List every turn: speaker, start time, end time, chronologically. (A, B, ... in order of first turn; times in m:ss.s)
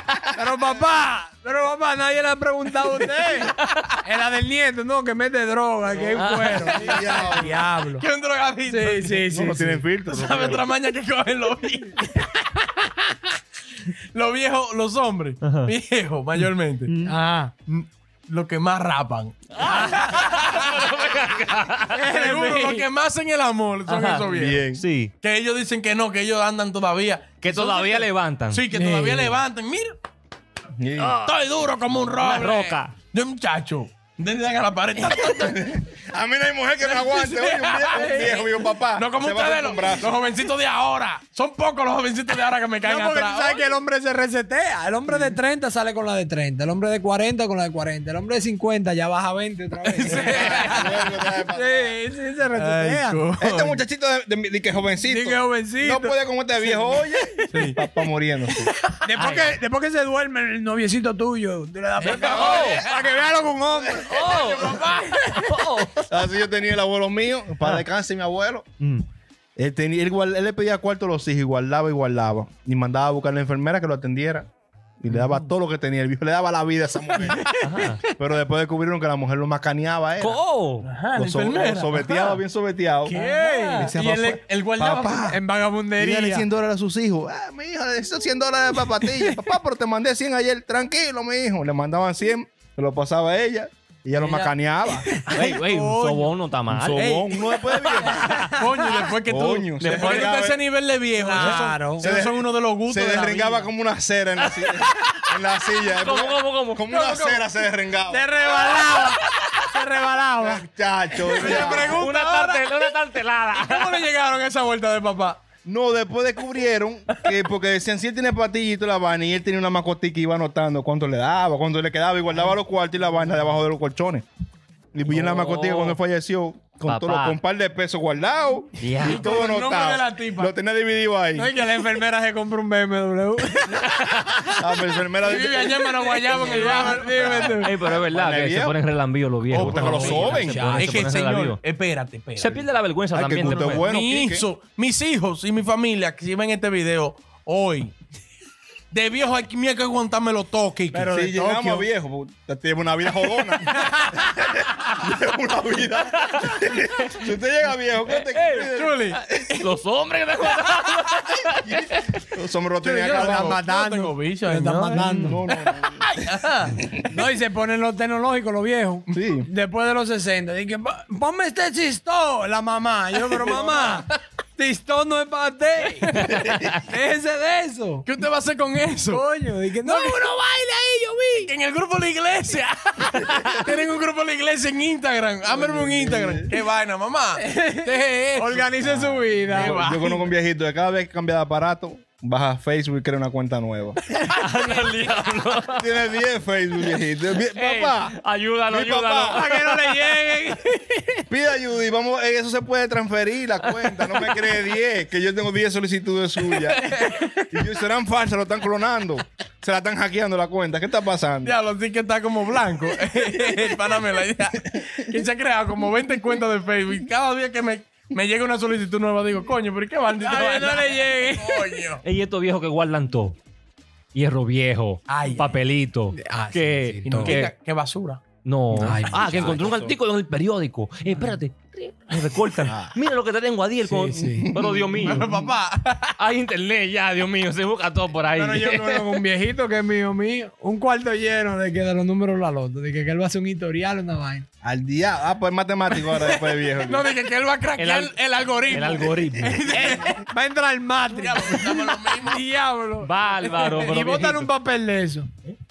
0:00.3-0:08.0 A
0:05.9-0:07.6 B
0:06.2-0:06.7 C
0:06.7-0:09.2 D
0:08.7-0:09.8 A
0:09.3-0:10.7 B
0:10.1-0:12.6 D
0:13.9-0:16.9 D
0:16.9-0:17.1 C
0:17.0-0:17.5 A
0:17.7-0:20.7 D
0:19.6-0:22.0 C
0:19.6-0:20.0 A
0:21.9-0:22.8 A
0:22.0-0:24.6 D
0:23.9-0:25.1 C
0:24.2-0:24.8 B
0:25.2-0:30.0 D
0:27.4-0:28.6 C
0:28.7-0:29.4 A
0:30.8-0:31.2 B
0:31.0-0:31.4 C
0:31.2-0:35.8 D
0:32.2-0:32.9 C
0:35.2-0:40.2 B
0:36.8-0:43.7 D
0:42.8-0:53.2 A
0:49.8-0:51.0 D
0:50.0-0:52.0 B
0:52.6-0:53.8 D
0:53.4-0:58.7 B
0:55.0-0:57.7 A
0:57.5-0:57.8 D
0:59.0-1:04.1 A
0:59.1-0:59.6 C
1:02.0-1:02.8 C
1:02.0-1:03.0 D
1:02.2-1:02.7 B
1:04.0-1:05.3 D
1:04.1-1:04.9 C
1:04.8-1:05.5 A
1:05.4-1:06.1 C
1:06.1-1:08.7 B
1:08.8-1:09.0 C
1:09.6-1:14.5 B
1:15.0-1:20.4 B
1:17.2-1:17.9 D
1:17.6-1:18.0 C
1:20.2-1:20.9 C
1:20.8-1:22.3 D
1:21.1-1:23.1 B
1:23.0-1:23.9 A
1:23.1-1:25.4 D
1:23.8-1:25.4 B
1:25.3-1:26.4 A
1:26.0-1:35.1 B
1:34.2-1:34.5 D
1:35.2-1:36.3 D
1:35.3-1:37.0 C
1:36.7-1:38.5 B
1:36.9-1:43.7 D
1:38.2-1:38.6 A
1:39.2-1:40.6 B
1:39.8-1:40.3 C
1:41.2-1:42.1 A
1:41.4-1:48.3 B
1:45.8-1:46.8 C
1:46.9-1:47.5 D
1:48.1-1:50.6 A
1:48.4-1:49.6 D
1:50.4-1:52.0 B
1:51.2-1:53.0 D
1:51.5-1:54.0 C
1:53.5-1:55.4 D
1:55.6-2:04.2 B
2:04.9-2:11.5 B
2:05.1-2:06.0 C
2:06.8-2:07.4 C
2:08.8-2:09.3 C
2:09.0-2:10.5 D
2:11.4-2:14.5 A
2:13.8-2:14.5 C
2:14.5-2:15.8 B
2:15.2-2:17.7 D
2:15.2-2:17.7 A
2:16.4-2:18.8 B
2:17.6-2:21.6 C
2:19.5-2:22.6 D
2:19.5-2:20.6 B
2:20.2-2:21.0 A
2:22.4-2:23.8 C
2:23.1-2:24.4 B
2:23.4-2:27.9 D
2:28.9-2:31.1 D
2:30.9-2:31.8 A
2:31.0-2:39.6 B
2:33.7-2:34.0 D
2:36.2-2:37.3 C
2:38.1-2:38.7 C
2:38.7-2:39.2 D
2:39.4-2:41.8 C
2:41.6-2:43.6 B
2:42.8-2:45.1 D
2:42.8-2:45.6 A
2:44.9-2:46.1 B
2:46.2-2:46.8 D
2:47.0-2:56.2 A
2:49.1-2:49.5 B
2:53.3-2:54.1 D
2:56.0-2:56.4 D
2:56.3-2:56.6 C
2:56.8-2:58.0 A
2:58.0-2:59.2 D
2:59.1-3:01.5 A
2:59.8-3:00.3 D
3:01.4-3:08.7 D
3:05.5-3:06.5 B
3:07.4-3:09.8 A
3:08.8-3:14.0 B
3:09.5-3:10.3 D
3:14.2-3:15.8 C
3:15.8-3:18.1 B
3:17.5-3:20.1 C
3:18.7-3:19.5 B
3:19.3-3:21.2 A
3:21.3-3:27.0 B
3:26.4-3:27.6 D
3:27.5-3:31.5 B
3:31.4-3:42.0 D
3:40.1-3:41.7 A
3:42.0-3:43.4 C
3:44.1-3:47.5 C
3:45.1-3:45.4 D
3:46.1-3:47.4 A
3:47.0-3:48.2 D
3:48.4-3:55.3 C
3:48.8-3:49.6 A
3:49.0-3:49.9 D
3:49.2-3:49.9 B
3:52.6-3:53.0 B
3:53.8-3:54.5 A
3:54.3-3:55.4 B
3:55.0-3:56.1 D
3:56.2-3:59.0 C
3:58.4-3:59.2 D
3:58.4-4:04.4 A
4:04.6-4:07.1 B
4:05.9-4:10.2 D
4:07.8-4:10.0 C
4:09.7-4:13.1 A
4:11.0-4:12.4 D
4:13.0-4:14.3 C
4:13.4-4:14.5 D
4:13.8-4:15.3 A